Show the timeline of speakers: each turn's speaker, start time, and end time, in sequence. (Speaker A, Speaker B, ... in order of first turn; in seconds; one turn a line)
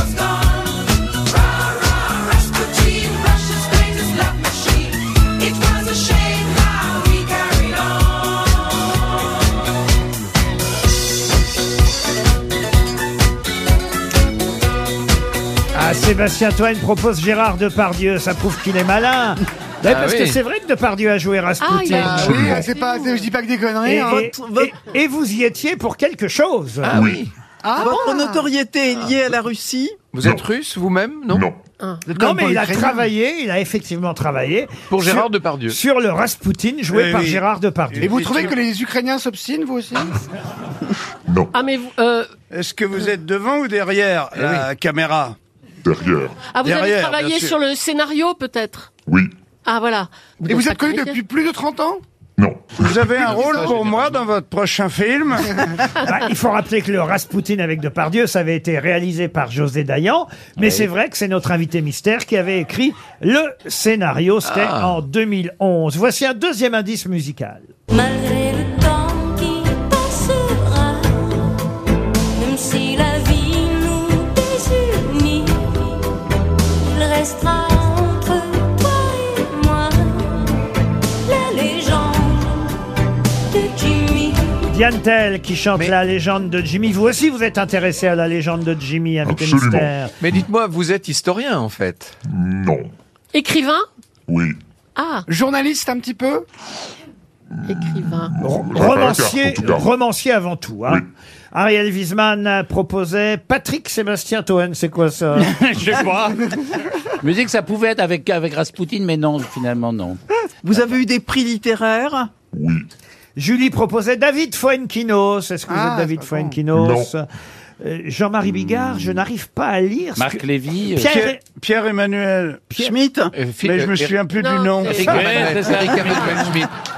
Speaker A: 15.7-22.6
Speaker B: 19.8-20.4
Speaker C: 21.6-22.3
Speaker D: 21.9-24.3
Speaker E: 22.2-22.6
Speaker A: 23.8-26.9
Speaker F: 24.1-24.8
Speaker B: 26.9-27.3
Speaker E: 26.9-27.2
Speaker D: 27.6-28.4
Speaker F: 27.8-30.0
Speaker B: 30.1-31.4
Speaker E: 31.3-31.6
Speaker D: 32.0-33.0
Speaker A: 32.1-38.5
Speaker B: 34.9-35.8
Speaker G: 36.9-37.4
Speaker G: 37.9-38.5
Speaker D: 38.0-40.1
Speaker E: 41.3-41.5
Speaker C: 41.5-42.3
Speaker G: 42.5-45.4
Speaker E: 45.8-46.4
Speaker C: 46.4-48.9
Speaker G: 46.6-47.5
Speaker E: 49.1-49.3
Speaker C: 49.6-51.2
Speaker D: 50.5-52.0
Speaker E: 52.4-53.0
Speaker G: 52.8-55.8
Speaker B: 53.2-54.2
Speaker A: 56.0-67.7
Speaker H: 60.6-60.8
Speaker B: 64.4-65.0
Speaker I: 67.9-71.5
Speaker I: 72.3-76.0
Speaker I: 76.9-80.6
Speaker I: 81.2-82.8
Speaker I: 83.5-84.6
Speaker A: 84.7-90.1
Speaker E: 89.2-89.9
Speaker B: 90.2-92.2
Speaker E: 92.2-92.9
Speaker C: 93.3-93.8
Speaker E: 94.3-94.6
Speaker C: 95.0-95.2
Speaker D: 95.3-96.4
Speaker E: 97.6-99.9
Speaker C: 97.7-98.3
Speaker A: 98.4-105.5
Speaker H: 105.4-106.5
Speaker H: 107.2-110.2
Speaker F: 110.6-112.3
Speaker E: 112.5-112.9
Speaker A: 113.4-117.2
Speaker D: 115.7-116.6
Speaker E: 116.7-117.1
Speaker A: 117.8-120.4
Speaker H: 120.2-121.2
Speaker A: 120.9-121.4
Speaker G: 121.0-122.7
Speaker F: 122.8-123.3
Speaker H: 123.4-124.1
Speaker G: 123.6-125.5
Speaker C: 124.3-126.5
Speaker H: 124.9-126.7
Speaker B: 125.1-126.7